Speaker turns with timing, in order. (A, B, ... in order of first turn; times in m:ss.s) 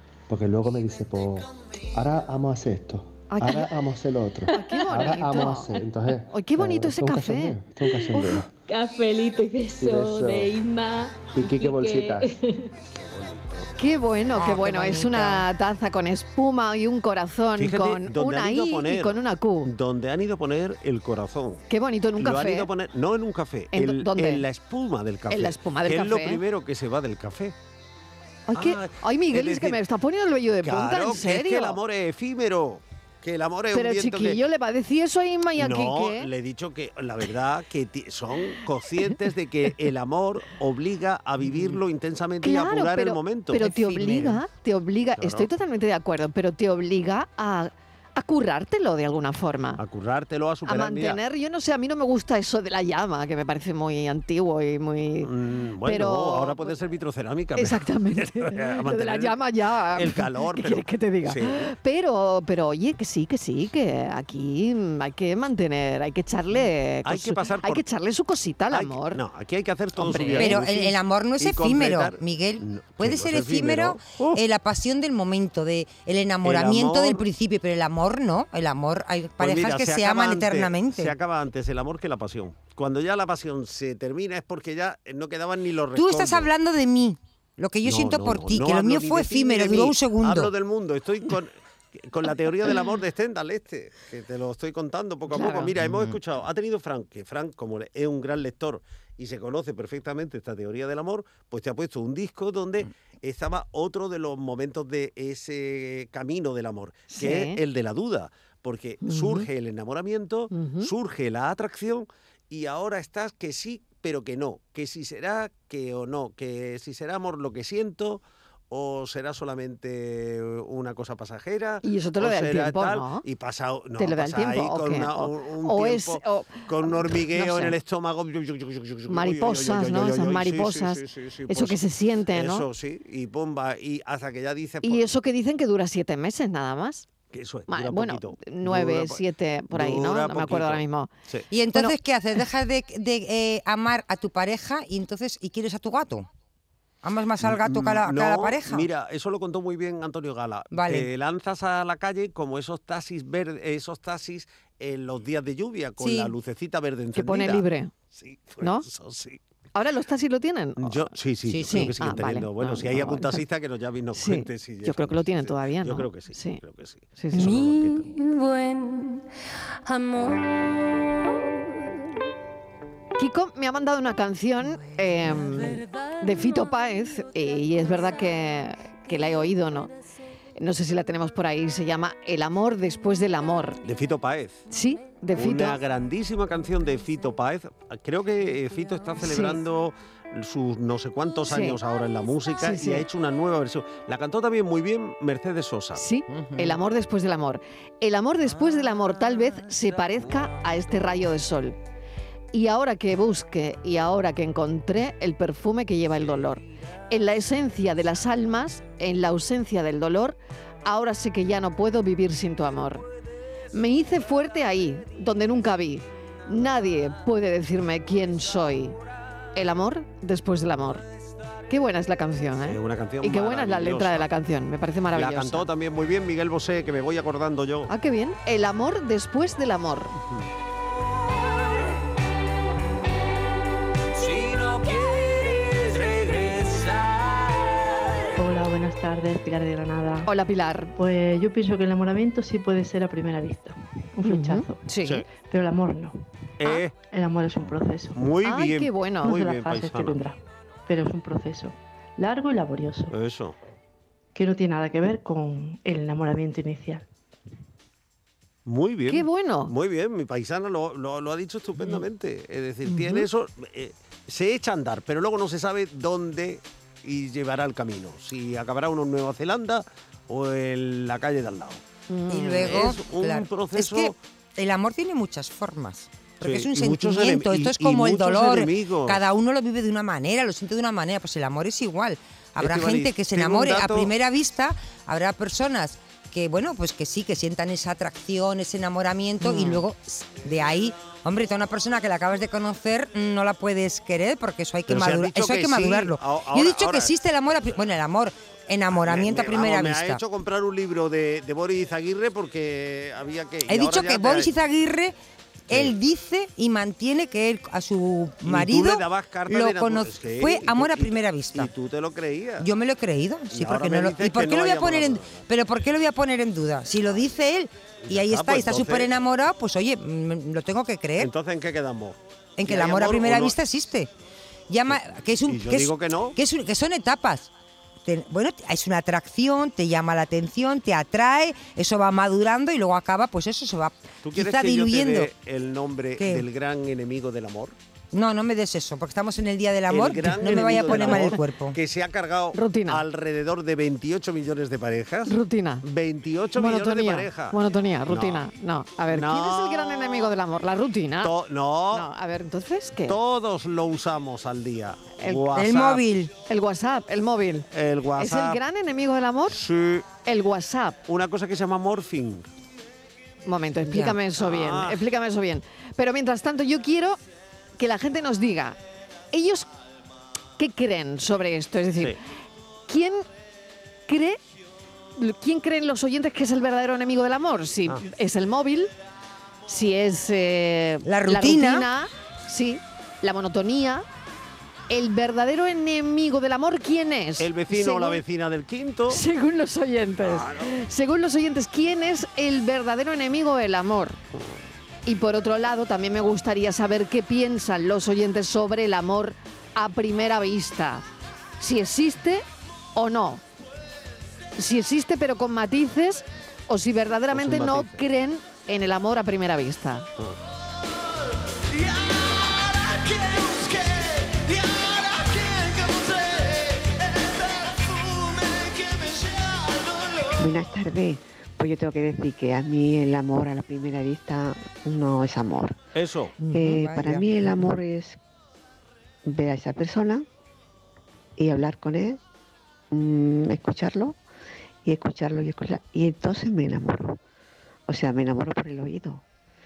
0:00.3-0:08.5 A
0:03.3-0:03.7 B
0:04.5-0:05.7 B
0:04.5-0:05.4 C
0:06.3-0:07.6 B
0:07.9-0:12.7 C
0:09.8-0:10.6 A
0:11.3-0:12.3 A
0:13.0-0:13.7 D
0:13.8-0:19.7 B
0:14.3-0:15.5 E
0:17.6-0:21.6 D
0:21.7-0:22.7 B
0:22.2-0:27.6 D
0:23.7-0:24.4 B
0:25.3-0:26.4 B
0:28.5-0:31.8 B
0:28.5-0:29.8 D
0:30.6-0:34.4 D
0:33.7-0:36.3 B
0:35.6-0:43.6 D
0:42.4-0:49.8 B
0:43.5-0:44.4 E
0:45.2-0:45.5 D
0:49.8-0:51.2 D
0:50.6-0:55.3 B
0:55.2-0:59.3 D
0:55.8-0:56.7 B
0:57.6-1:09.2 B
0:59.9-1:01.7 D
1:07.0-1:07.8 D
1:08.7-1:14.4 D
1:10.0-1:10.6 B
1:10.2-1:21.1 E
1:16.4-1:17.2 D
1:19.4-1:26.5 D
1:26.0-1:30.5 E
1:27.8-2:15.1 D
1:35.3-1:35.7 B
1:35.9-1:36.2 E
1:47.1-1:47.6 B
1:49.0-1:49.5 B
1:50.5-1:50.9 B
2:01.8-2:03.2 B
2:04.0-2:07.8 B
2:09.1-2:12.7 B
2:14.8-2:17.1 B
2:17.3-2:21.5 D
2:17.7-2:21.1 B
2:21.5-2:26.3 E
2:27.0-2:28.9 E
2:27.4-2:39.4 D
2:30.7-2:31.1 E
2:36.0-2:36.3 E
2:37.2-2:37.9 B
2:39.7-2:41.1 B
2:40.8-2:48.1 D
2:41.5-2:42.0 E
2:41.6-2:43.4 B
2:44.1-2:46.6 B
2:47.2-2:47.6 B
2:53.2-2:59.9 B
3:00.6-3:03.8 B
3:03.8-3:04.6 D
3:04.7-3:05.8 B
3:05.3-3:16.0 D
3:09.2-3:09.6 B
3:11.5-3:11.8 B
3:12.6-3:13.0 B
3:16.0-3:21.8 B
3:16.3-3:16.8 E
3:22.5-3:33.0 B
3:33.7-3:39.0 B
3:39.5-3:41.0 B
3:41.7-3:45.7 B
3:42.6-3:44.3 D
3:45.1-3:47.9 D
3:47.9-3:50.1 B
3:50.2-3:50.5 D
3:54.2-3:57.4 F
3:58.4-4:00.3 G
4:00.3-4:00.9 B
4:01.0-4:06.2 G
4:04.2-4:05.2 B
4:06.6-4:07.0 D
4:07.1-4:08.2 G
4:07.6-4:10.2 D
4:08.4-4:09.4 B
4:09.2-4:13.1 G
4:13.1-4:13.6 D
4:14.3-4:17.1 G
4:18.6-4:34.2 D
4:19.1-4:19.7 B
4:22.9-4:23.2 B
4:32.3-5:00.2 E
4:36.4-4:39.2 D
4:42.6-4:44.1 D
4:49.5-4:49.8 D
4:54.9-4:57.1 D
4:58.9-5:04.5 D
5:03.7-5:05.2 E
5:05.7-5:11.7 E
5:08.4-5:12.7 D
5:12.6-5:21.3 E
5:13.5-5:15.4 D
5:18.0-5:19.1 D
5:21.2-5:23.6 D
5:22.6-5:24.1 E
5:24.7-5:27.5 E
5:25.5-5:26.4 D
5:28.0-5:35.3 E
5:34.2-5:37.8 D
5:36.2-5:36.5 E
5:38.1-5:41.8 E
5:39.9-5:47.6 D
5:40.4-5:41.4 B
5:42.5-5:43.0 B
5:45.3-5:45.8 B
5:46.6-5:51.3 B
5:48.1-5:48.5 D
5:49.1-5:50.3 D
5:51.2-5:52.1 D
5:51.9-5:53.2 B
5:53.1-5:56.0 D
5:55.2-5:55.4 B
5:55.5-5:56.3 E
5:56.5-5:59.6 B
5:57.7-5:58.6 D
5:59.5-6:00.0 D
6:00.2-6:01.0 B
6:01.1-6:02.5 D
6:03.5-6:07.2 B
6:03.9-6:04.2 E
6:04.4-6:05.0 D
6:07.8-6:08.8 B
6:09.3-6:09.7 B
6:10.6-6:12.2 B
6:12.9-6:13.2 B
6:14.1-6:14.4 B
6:15.2-6:18.9 B
6:19.7-6:24.0 B
6:21.0-6:21.9 E
6:24.9-6:28.2 B
6:27.4-6:29.2 D
6:29.1-6:34.2 B
6:30.2-6:30.7 D
6:35.0-6:41.0 B
6:41.6-6:43.4 B
6:44.6-6:50.1 B
6:47.3-6:48.0 D
6:51.7-7:00.3 F
7:00.4-7:05.8 H
7:06.0-7:06.3 D
7:06.4-7:07.3 E
7:06.5-7:08.2 H
7:09.2-7:10.2 H
7:11.4-7:12.2 H
7:12.9-7:14.2 H
7:14.8-7:17.2 H
7:17.9-7:19.2 H